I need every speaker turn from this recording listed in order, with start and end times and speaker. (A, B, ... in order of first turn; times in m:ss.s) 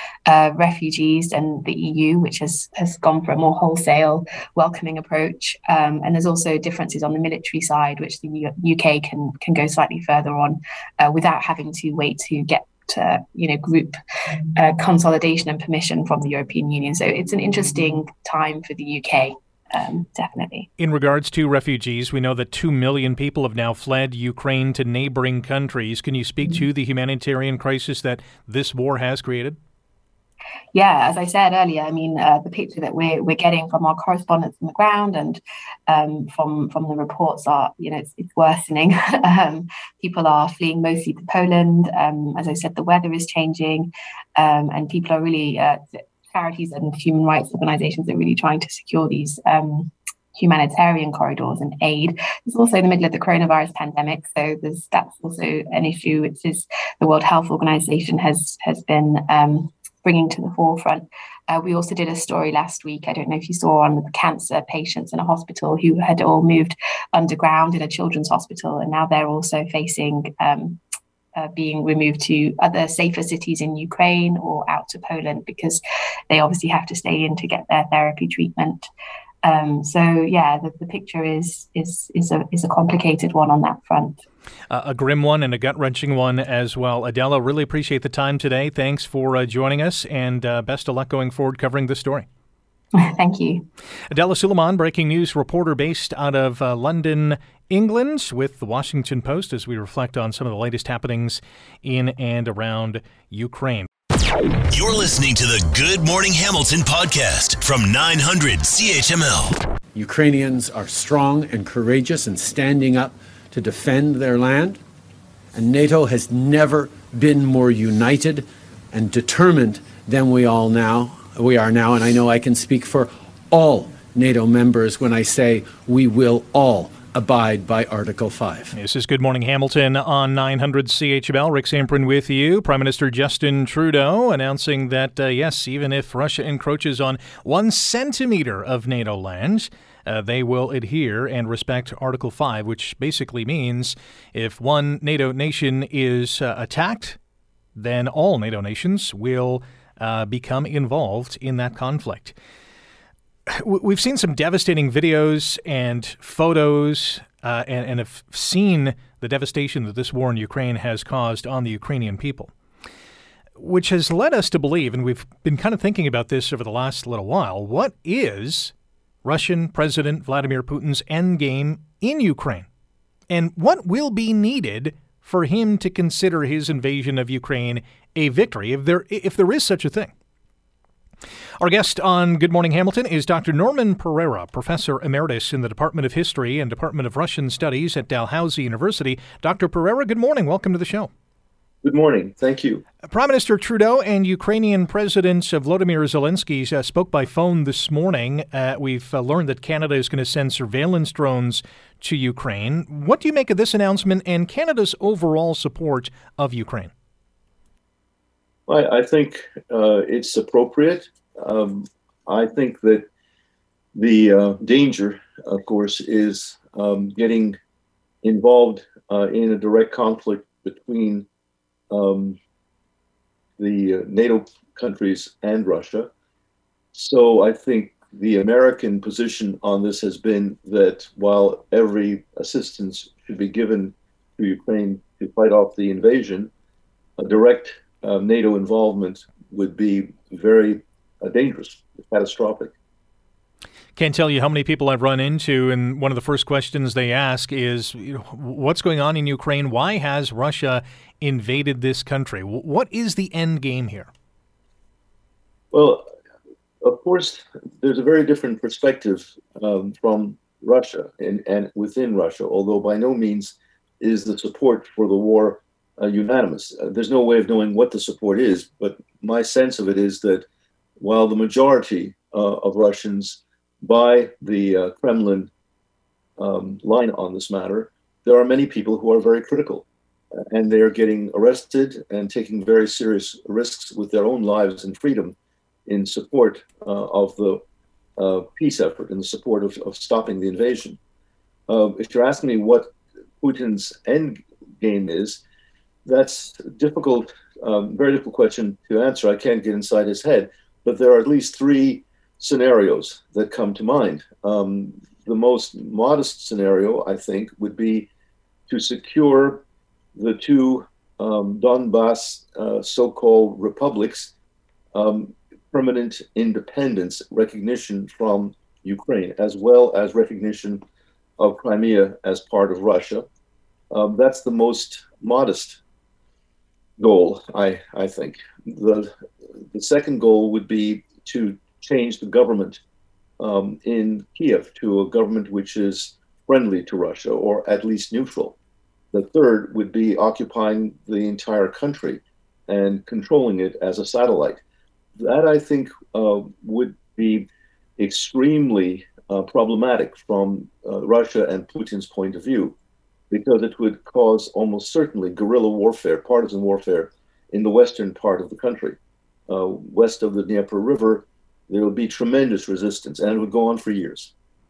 0:00.3-0:14.0 A
0:14.6-0:20.7 A
0:20.8-0:29.6 B
0:30.7-1:10.8 A
1:11.4-1:18.9 A
1:19.4-1:24.2 A
1:24.7-1:32.3 B
1:33.0-1:33.7 A
1:34.1-1:43.9 B
1:44.7-1:49.6 C
1:49.9-1:54.8 D
1:55.5-2:08.7 D
2:08.7-2:27.2 B
2:27.8-2:32.4 B
2:33.5-2:42.5 B
2:43.6-2:48.7 B
2:49.2-2:52.7 B
2:53.3-3:00.1 B
3:01.6-3:11.1 B
3:11.8-3:12.8 E
3:13.1-3:26.9 B
3:28.7-3:33.1 E
3:34.0-3:37.6 E
3:38.2-3:41.3 E
3:41.9-3:42.4 E
3:43.6-3:46.1 E
3:46.9-3:56.5 E
3:57.2-4:02.7 E
4:04.0-4:14.1 B
4:15.7-4:16.1 E
4:16.8-4:30.5 E
4:31.0-4:35.5 E
4:36.4-4:39.9 E
4:40.5-4:45.4 E
4:45.9-4:47.6 E
4:48.2-4:51.0 E
4:51.7-4:55.4 E
4:56.0-5:08.1 E
5:08.7-5:09.6 E
5:10.2-5:14.3 E
5:14.9-5:20.8 E
5:21.4-5:23.3 E
5:23.9-5:25.8 E
5:27.0-5:29.1 E
5:29.7-5:32.8 E
5:33.4-5:38.6 E
5:39.1-5:44.6 E
5:45.2-5:47.5 E
5:48.0-5:52.8 E
5:53.3-5:59.0 E
5:59.5-6:04.3 E